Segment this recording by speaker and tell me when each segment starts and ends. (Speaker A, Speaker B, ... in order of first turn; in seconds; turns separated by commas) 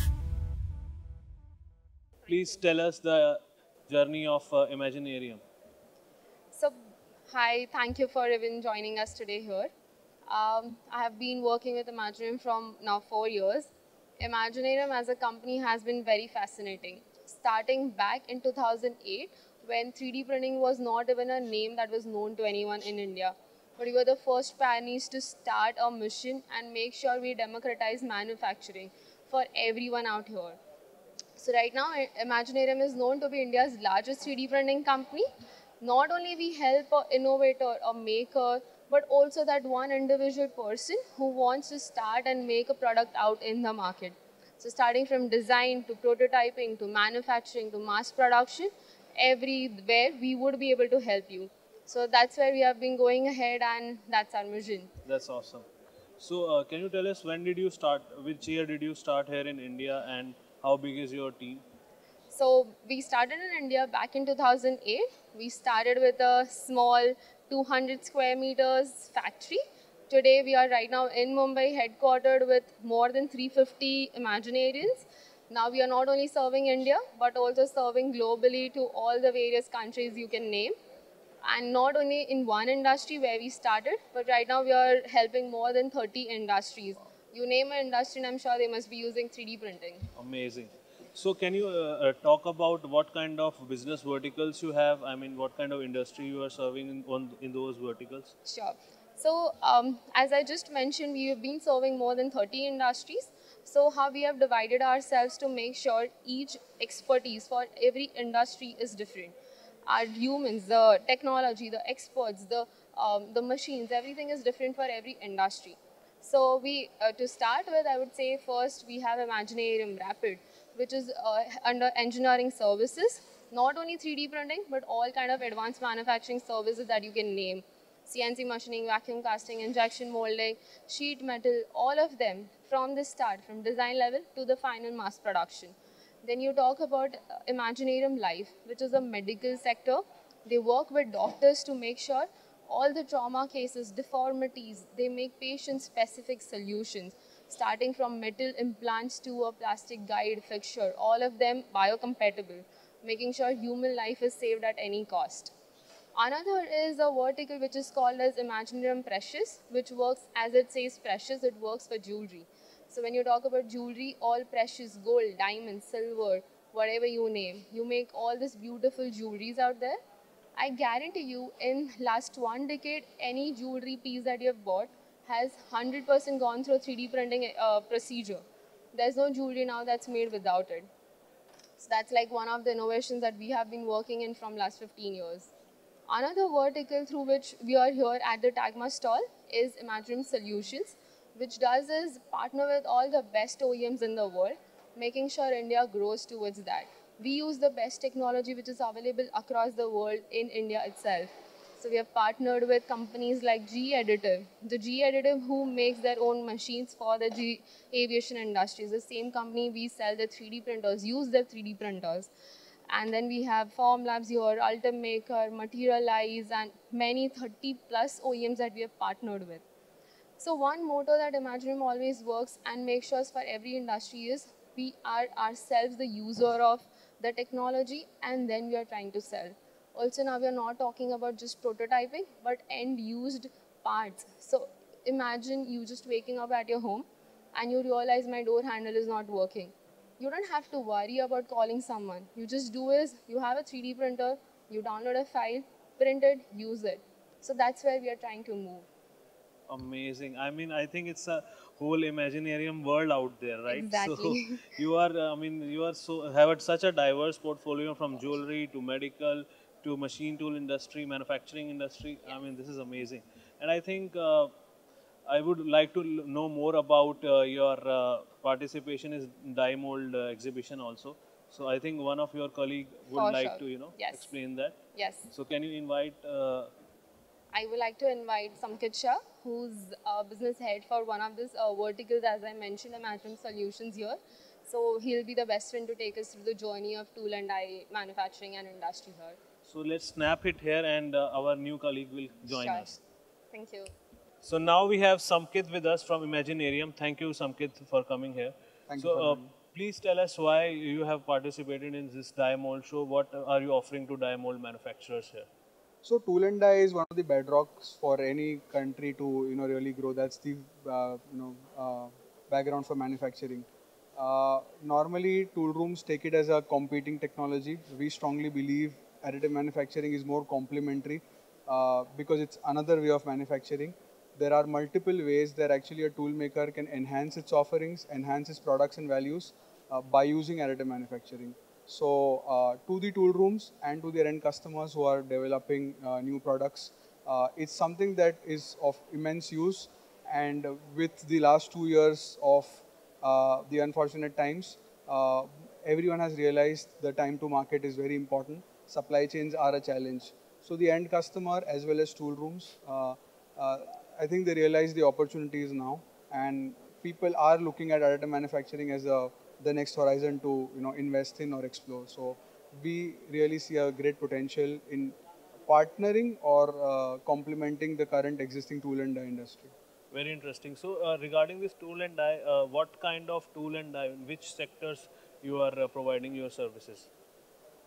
Speaker A: 2.3-5.4, Speaker B: 7.3-9.7, Speaker B: 10.3-30.6, Speaker B: 31.4-35.3, Speaker B: 35.8-54.9, Speaker A: 55.0-55.7, Speaker A: 56.2-61.6, Speaker B: 62.3-80.7, Speaker B: 81.4-90.1, Speaker A: 90.2-98.3, Speaker B: 98.4-109.3, Speaker B: 109.9-155.5, Speaker B: 156.2-170.0, Speaker B: 170.6-180.9, Speaker B: 181.8-185.5, Speaker B: 186.1-212.3, Speaker B: 212.9-219.6, Speaker B: 220.4-248.8, Speaker A: 249.7-264.5, Speaker B: 253.7-254.7, Speaker A: 265.3-274.8, Speaker B: 273.1-274.3, Speaker B: 274.9-275.3, Speaker A: 275.3-276.7, Speaker B: 277.5-289.4, Speaker A: 289.6-293.0, Speaker B: 292.5-292.9, Speaker B: 293.5-293.9, Speaker A: 294.4-305.5, Speaker C: 298.9-299.5, Speaker C: 306.0-369.7, Speaker A: 370.1-377.1